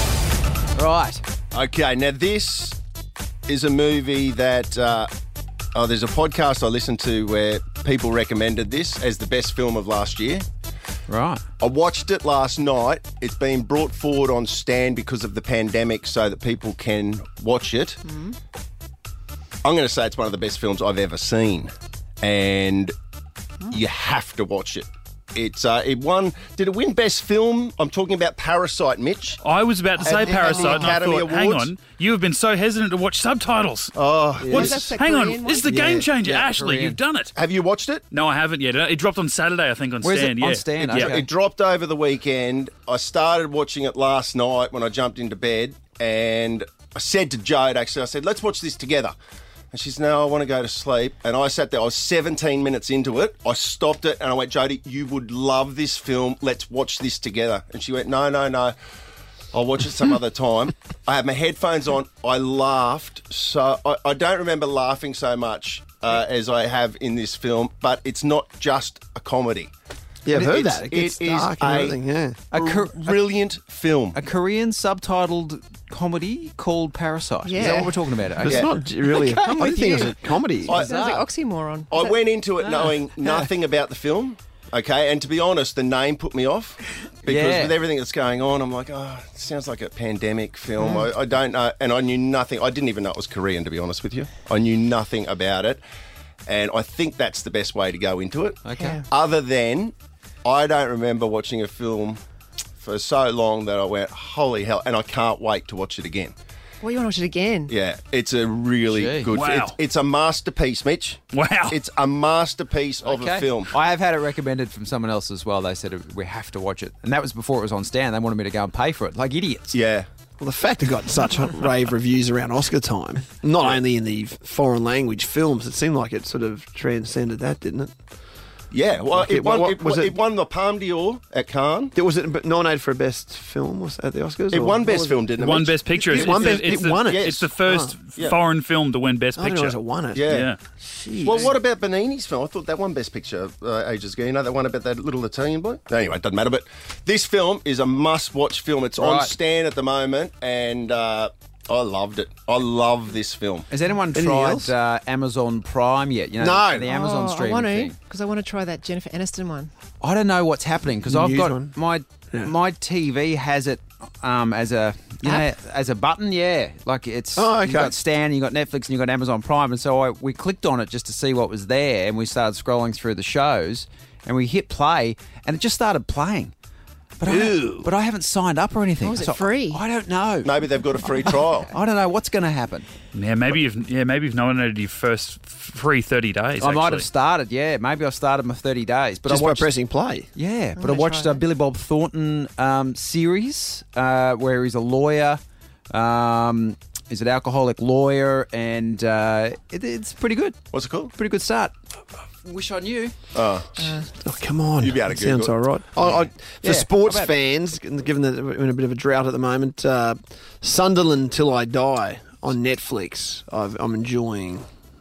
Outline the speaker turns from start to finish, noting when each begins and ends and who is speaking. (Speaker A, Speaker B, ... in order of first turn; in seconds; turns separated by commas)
Speaker A: 0.8-1.2, Speaker B: 1.5-2.8, Speaker B: 3.5-5.1, Speaker B: 5.8-10.4, Speaker A: 11.1-11.4, Speaker B: 11.6-18.0, Speaker C: 18.1-18.4, Speaker B: 19.6-22.9, Speaker B: 23.7-29.4, Speaker D: 29.4-33.9, Speaker B: 30.0-31.7, Speaker B: 33.9-34.9, Speaker A: 34.4-34.9, Speaker C: 34.5-35.9, Speaker D: 34.5-37.3, Speaker A: 35.8-37.0, Speaker B: 37.4-38.0, Speaker D: 38.1-41.1, Speaker A: 40.0-41.3, Speaker B: 40.8-49.1, Speaker B: 49.7-58.8, Speaker B: 59.5-69.7, Speaker E: 70.2-72.4, Speaker B: 70.3-72.0, Speaker A: 72.5-73.2, Speaker B: 72.5-74.2, Speaker A: 74.1-81.3, Speaker C: 77.5-78.0, Speaker E: 77.6-80.8, Speaker C: 79.3-82.2, Speaker B: 81.9-95.8, Speaker A: 87.3-87.8, Speaker B: 96.5-102.2, Speaker A: 98.6-99.0, Speaker B: 102.8-106.3, Speaker C: 106.8-107.7, Speaker B: 107.7-113.8, Speaker A: 108.9-109.3, Speaker D: 109.3-109.8, Speaker D: 111.3-111.8, Speaker A: 113.0-119.8, Speaker B: 119.7-120.1, Speaker E: 120.4-127.9, Speaker B: 128.7-131.9, Speaker E: 129.1-130.1, Speaker E: 131.9-138.0, Speaker B: 134.5-137.5, Speaker D: 135.4-140.6, Speaker E: 139.4-140.3, Speaker B: 140.1-140.5, Speaker E: 140.9-141.5, Speaker B: 141.2-153.7, Speaker A: 149.0-149.3, Speaker A: 153.7-158.0, Speaker E: 154.1-154.7, Speaker E: 156.4-156.9, Speaker C: 156.8-159.7, Speaker A: 160.0-176.5, Speaker E: 161.1-161.8, Speaker E: 167.4-167.9, Speaker A: 177.2-180.5, Speaker E: 177.3-177.9, Speaker C: 179.0-179.8, Speaker B: 180.4-181.7, Speaker A: 181.3-182.9, Speaker D: 183.1-187.1, Speaker A: 186.6-189.7, Speaker E: 189.3-190.3, Speaker A: 190.3-200.6, Speaker C: 190.8-191.4, Speaker B: 200.7-201.1, Speaker A: 201.1-201.7, Speaker A: 202.4-203.2, Speaker B: 203.3-203.8, Speaker C: 203.8-204.1, Speaker E: 204.1-214.7, Speaker B: 204.8-205.6, Speaker A: 206.6-207.3